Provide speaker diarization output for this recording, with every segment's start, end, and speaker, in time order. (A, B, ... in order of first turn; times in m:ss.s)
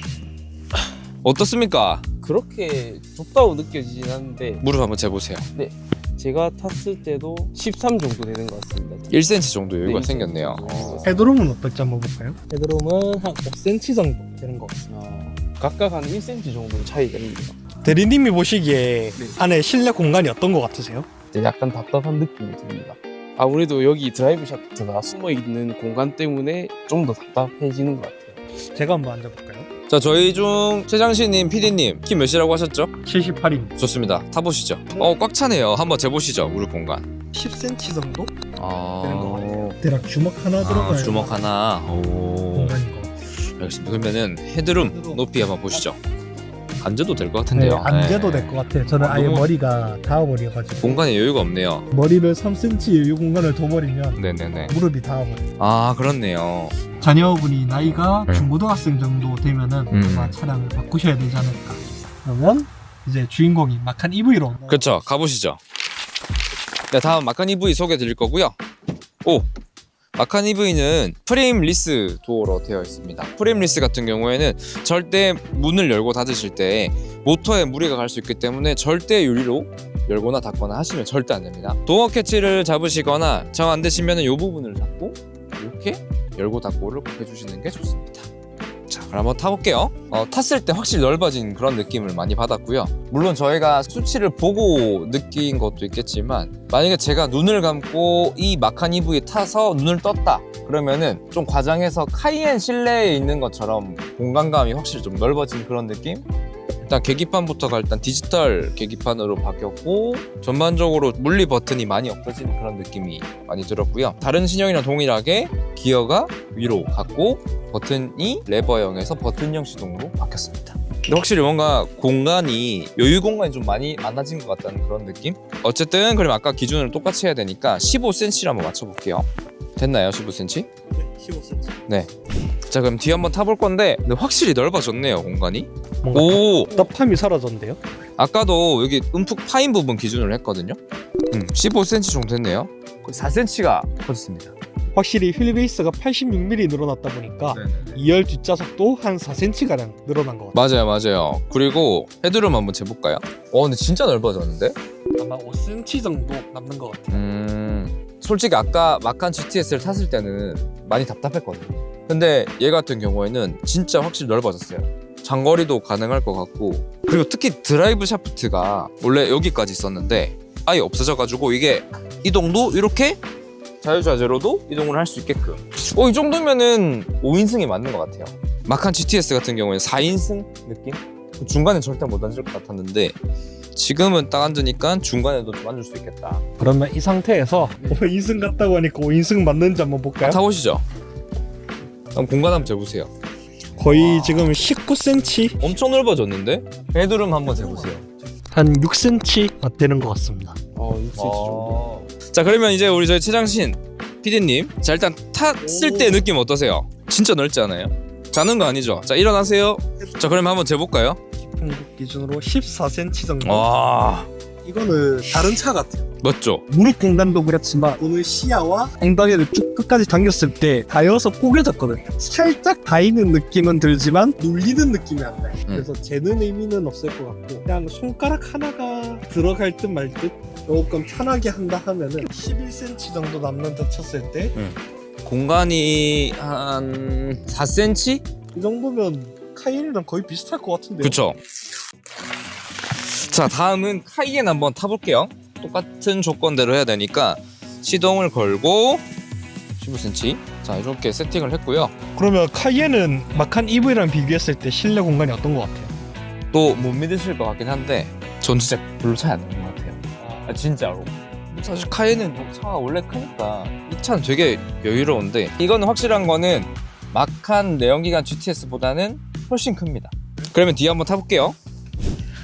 0:01.2-0:02.0 A
0:02.2-0:04.6 B
0:04.6-0:05.4 A
0:05.5-0:09.1 B
0:09.1-0:11.0 A
0:09.8-0:11.2 B
0:11.0-0:14.9 C
0:14.9-0:17.6 B
0:17.8-0:21.1 C
0:21.3-0:28.4 B
0:28.7-0:29.7 C
0:29.9-0:32.9 A
0:33.0-0:33.7 C
0:33.8-0:37.1 A
0:34.9-0:35.2 C
0:37.3-0:38.4 C
0:38.6-0:39.8 A
0:39.0-0:41.4 C
0:40.6-0:42.8 A
0:42.5-0:43.1 C
0:43.4-0:46.0 A
0:44.8-0:45.2 C
0:46.8-0:48.5 A
0:47.5-0:51.0 C
0:49.1-0:49.4 B
0:49.1-0:49.4 A
0:50.8-0:51.9 A
0:51.9-0:55.4 C
0:54.2-0:54.7 A
0:55.6-0:56.7 A
0:57.0-1:05.0 C
0:59.9-1:00.3 A
1:04.7-1:05.6 A
1:06.9-1:08.6 A
1:10.1-1:28.3 A
1:28.9-1:46.2 A
1:46.8-2:10.7 A
2:10.9-2:11.8 C
2:12.7-2:16.9 A
2:16.0-2:17.8 C
2:18.2-2:20.8 A
2:21.3-2:24.5 A
2:24.9-2:30.5 C
2:27.5-2:28.0 A
2:30.5-2:34.8 A
2:35.1-2:37.2 C
2:37.1-2:53.2 A
2:53.8-3:03.2 A
3:03.7-3:06.4 A
3:06.6-3:10.4 C
3:10.2-3:10.8 A
3:12.1-3:13.1 A
3:13.8-3:15.6 C
3:13.8-3:14.5 A
3:15.6-3:18.0 A
3:17.6-3:20.6 C
3:20.7-3:21.8 B
3:21.1-3:31.2 A
3:25.6-3:26.3 C
3:31.4-3:33.7 C
3:33.4-3:34.3 A
3:34.6-3:36.1 C
3:36.2-3:36.6 A
3:36.7-3:54.5 C
3:54.5-3:58.2 A
3:58.5-4:01.2 C
4:01.0-4:01.4 A
4:03.1-4:09.0 A
4:09.8-4:11.9 A
4:12.1-4:15.9 C
4:16.5-4:31.6 A
4:20.2-4:20.6 C